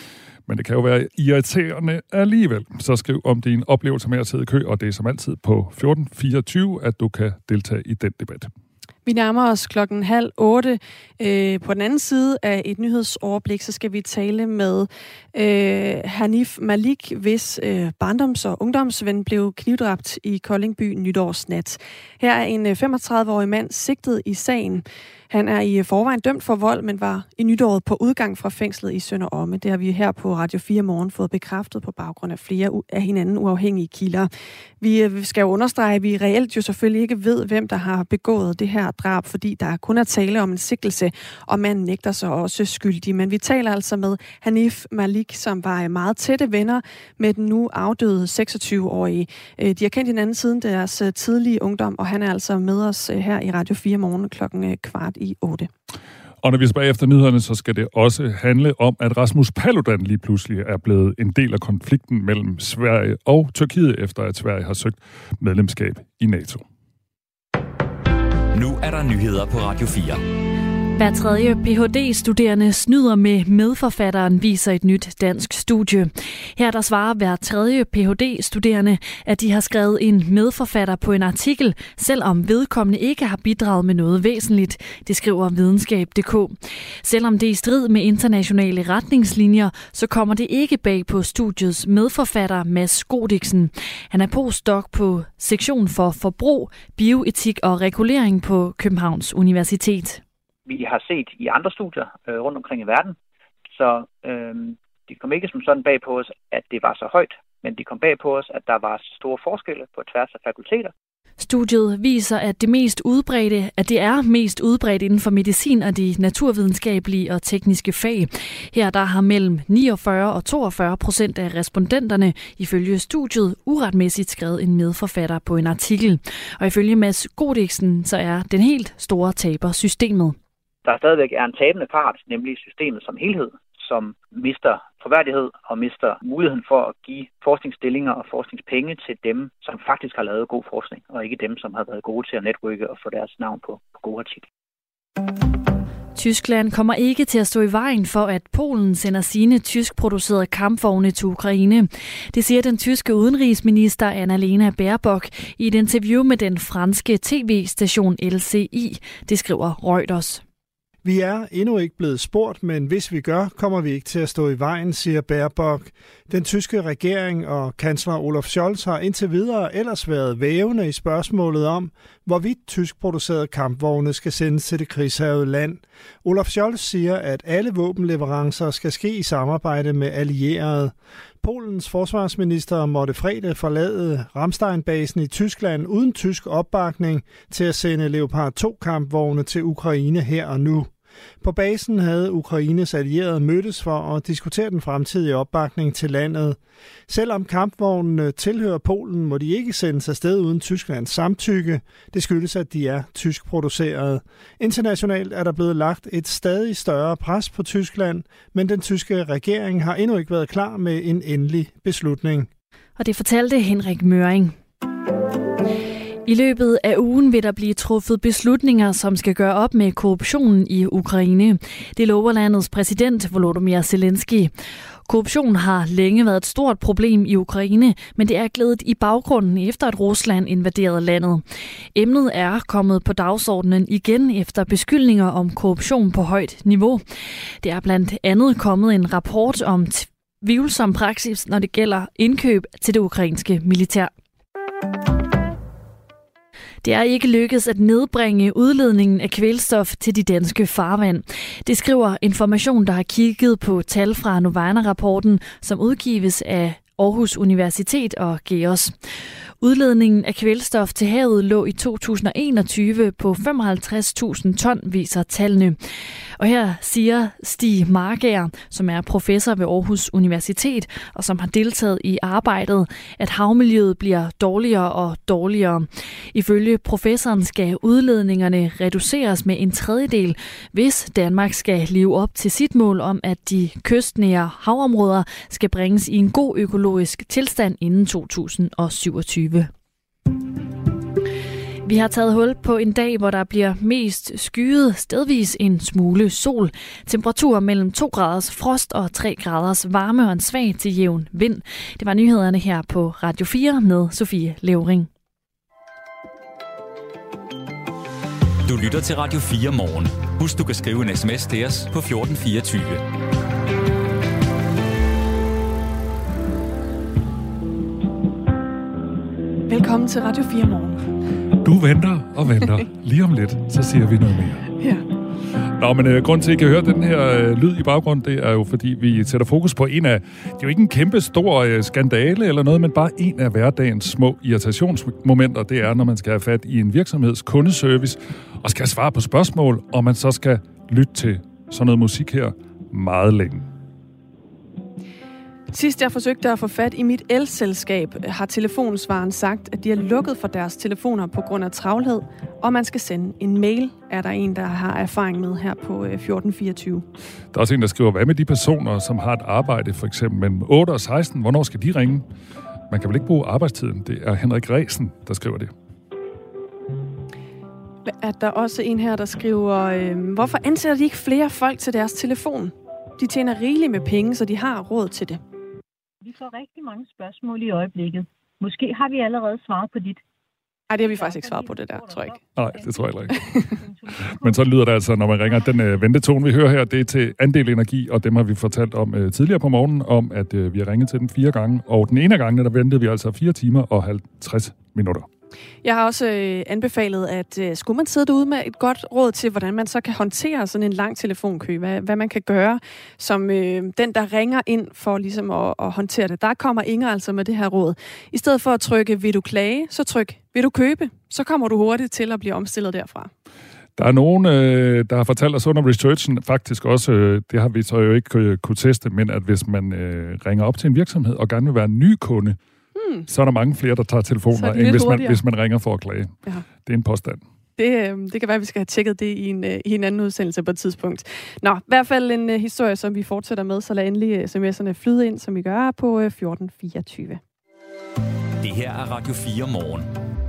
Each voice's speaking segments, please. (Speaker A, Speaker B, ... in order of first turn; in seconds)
Speaker A: 0.5-8.5, 56.4-66.6, 321.6-324.7, 325.8-343.7, 357.5-362.2, 362.9-365.7, 382.6-383.4, 384.4-395.3, 414.0-422.6, 423.3-427.4
Speaker B: 9.1-34.3, 34.8-55.7, 319.7-321.1, 324.8-325.0, 345.7-357.0, 368.2-375.4, 380.9-382.4, 383.3-383.7, 395.8-413.3, 422.9-423.3, 424.5-425.4, 427.8-437.4
Speaker C: 68.5-70.2, 308.6-313.0, 438.6-440.1
Speaker D: 71.0-100.2, 111.4-130.3, 146.1-160.4, 213.0-214.6, 216.2-224.5, 225.1-231.4, 231.9-237.0, 237.6-244.1, 246.8-258.9, 259.6-265.8, 266.4-289.7, 291.8-305.1
Speaker E: 100.7-103.2, 103.8-110.9, 130.8-144.4
Speaker F: 161.0-212.5
Speaker G: 376.2-380.2, 380.9-384.7